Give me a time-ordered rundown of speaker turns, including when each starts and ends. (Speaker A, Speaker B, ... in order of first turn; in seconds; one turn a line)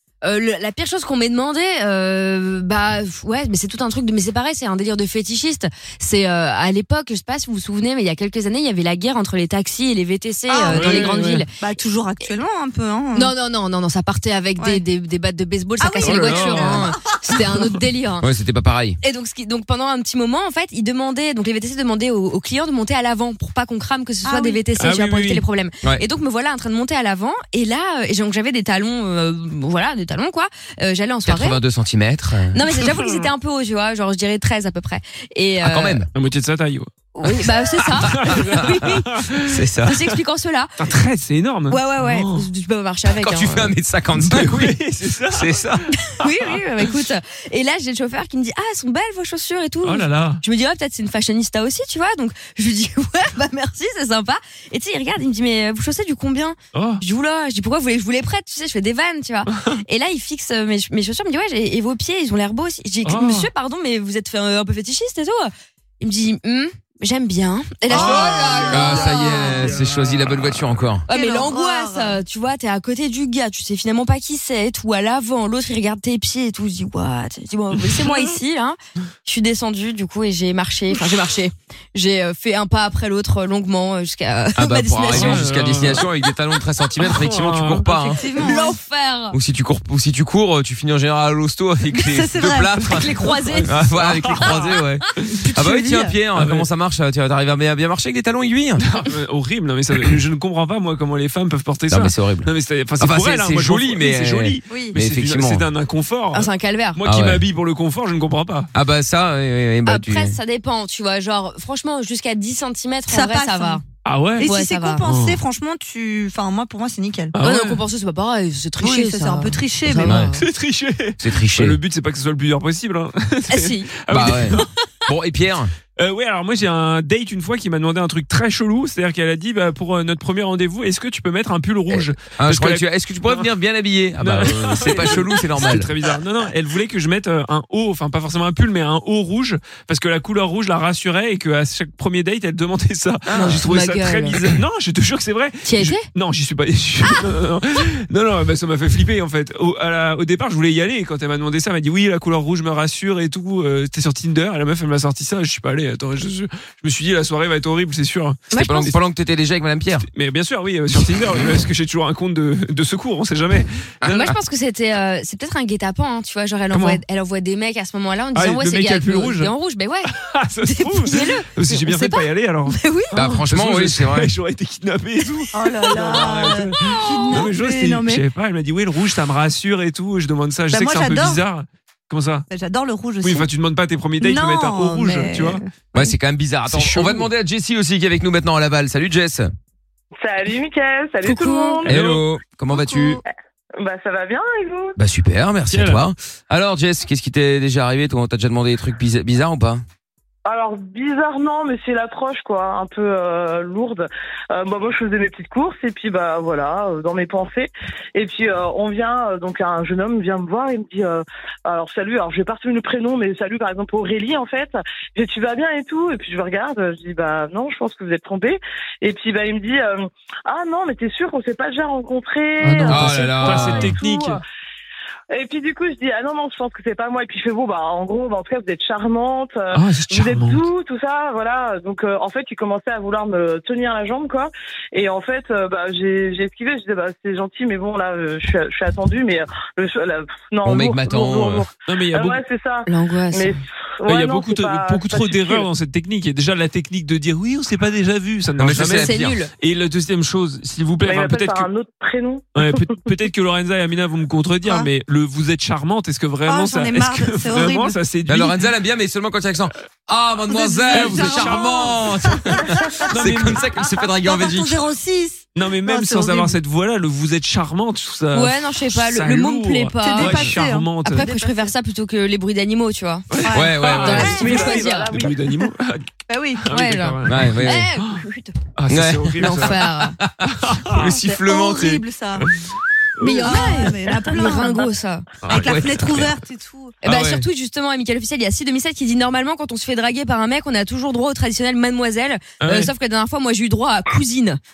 Speaker A: 0.2-11.5
Speaker B: 10.5-13.3
Speaker C: 10.7-11.4
Speaker A: 13.2-18.2
Speaker B: 14.6-14.8
Speaker B: 15.8-17.9
Speaker C: 16.0-16.9
Speaker D: 18.2-19.0
Speaker A: 19.0-31.6
Speaker B: 24.2-24.7
Speaker C: 24.8-25.4
Speaker D: 31.3-32.6
Speaker A: 32.5-36.1
Speaker D: 35.6-36.1
Speaker C: 36.1-36.9
Speaker A: 37.2-39.2
Speaker D: 37.8-38.6
Speaker C: 38.0-39.5
Speaker D: 39.4-40.0
Speaker A: 39.9-41.0
Speaker C: 40.8-42.5
Speaker A: 41.7-43.7
Speaker D: 43.1-44.8
Speaker C: 44.2-46.6
Speaker D: 45.3-45.8
Speaker A: 46.1-69.7
Speaker C: 49.8-50.4
Speaker C: 56.7-57.0
Speaker C: 63.0-63.5
Speaker B: 67.9-69.7
Speaker C: 67.9-68.7
Speaker D: 68.0-71.0
Speaker A: 71.1-85.5
Speaker B: 71.1-72.2
Speaker D: 84.6-88.2
Speaker C: 85.1-86.0
Speaker C: 87.0-87.9
Speaker B: 88.2-88.8
Speaker A: 88.3-89.3
Speaker D: 89.3-93.1
Speaker B: 91.9-93.7
Speaker A: 92.8-93.9
Speaker D: 93.7-98.8
Speaker C: 94.0-94.7
Speaker B: 95.5-96.1
Speaker C: 96.3-96.7
Speaker C: 98.8-108.7
Speaker D: 101.9-102.5
Speaker D: 103.0-105.6
Speaker B: 104.7-105.0
Speaker A: 106.3-107.0
Speaker D: 107.0-107.4
Speaker D: 108.7-110.4
Speaker A: 109.9-113.8
Speaker B: 113.1-113.8
Speaker C: 114.0-114.5
Speaker B: 114.4-117.3
Speaker A: 114.4-115.0
Speaker C: 115.0-115.4
Speaker C: 117.3-117.8
Speaker A: 117.4-120.4
Speaker B: 118.8-120.2
Speaker D: 120.0-120.3
Speaker C: 120.3-124.7
Speaker D: 121.2-121.8
Speaker A: 123.5-123.9
Speaker D: 124.1-125.7
Speaker C: 126.0-133.5
Speaker D: 131.9-135.9
Speaker C: 134.2-158.4
Speaker A: 143.3-144.4
Speaker A: 145.6-146.1
Speaker A: 158.5-158.9
Speaker D: 158.5-160.1
Speaker C: 160.1-164.3
Speaker A: 164.0-170.1
Speaker C: 166.7-167.0
Speaker C: 168.3-169.5
Speaker C: 170.1-182.5
Speaker A: 170.6-173.3
Speaker D: 173.1-174.3
Speaker B: 175.5-178.2
Speaker B: 180.7-181.4
Speaker B: 182.5-183.5
Speaker C: 183.2-185.6
Speaker B: 184.2-186.1
Speaker D: 185.9-189.5
Speaker C: 186.7-187.3
Speaker E: 190.2-191.9
Speaker A: 191.2-191.8
Speaker C: 191.9-192.2
Speaker D: 191.9-193.2
Speaker B: 192.7-193.2
Speaker E: 193.8-195.0
Speaker D: 195.0-199.8
Speaker C: 195.7-196.1
Speaker E: 200.5-224.4
Speaker C: 222.6-224.4
Speaker D: 222.9-223.9
Speaker E: 225.3-245.7
Speaker C: 229.7-230.6
Speaker D: 240.6-241.6
Speaker C: 241.9-242.4
Speaker A: 242.9-243.6
Speaker C: 244.1-251.7
Speaker D: 248.6-249.4
Speaker A: 248.8-249.5
Speaker E: 251.0-252.9
Speaker C: 252.6-258.7
Speaker B: 256.4-258.0
Speaker D: 258.3-264.8
Speaker B: 260.5-263.1
Speaker C: 260.9-263.6
Speaker B: 264.2-266.6
Speaker C: 265.6-271.2
Speaker A: 268.3-273.2
Speaker B: 270.0-271.8
Speaker C: 273.3-276.1
Speaker B: 273.4-274.6
Speaker D: 273.5-274.3
Speaker A: 274.0-275.2
Speaker E: 274.3-275.4
Speaker B: 276.3-276.7
Speaker C: 276.7-278.2
Speaker A: 276.7-278.5
Speaker D: 277.3-277.9
Speaker C: 278.8-279.9
Speaker D: 278.9-279.6
Speaker A: 279.4-280.2
Speaker D: 280.2-282.0
Speaker C: 280.4-281.1
Speaker B: 281.0-282.5
Speaker C: 283.2-283.9
Speaker A: 283.2-285.3
Speaker B: 283.3-284.9
Speaker B: 285.4-287.0
Speaker D: 285.5-286.3
Speaker A: 287.0-294.6
Speaker D: 287.0-287.5
Speaker C: 292.6-292.9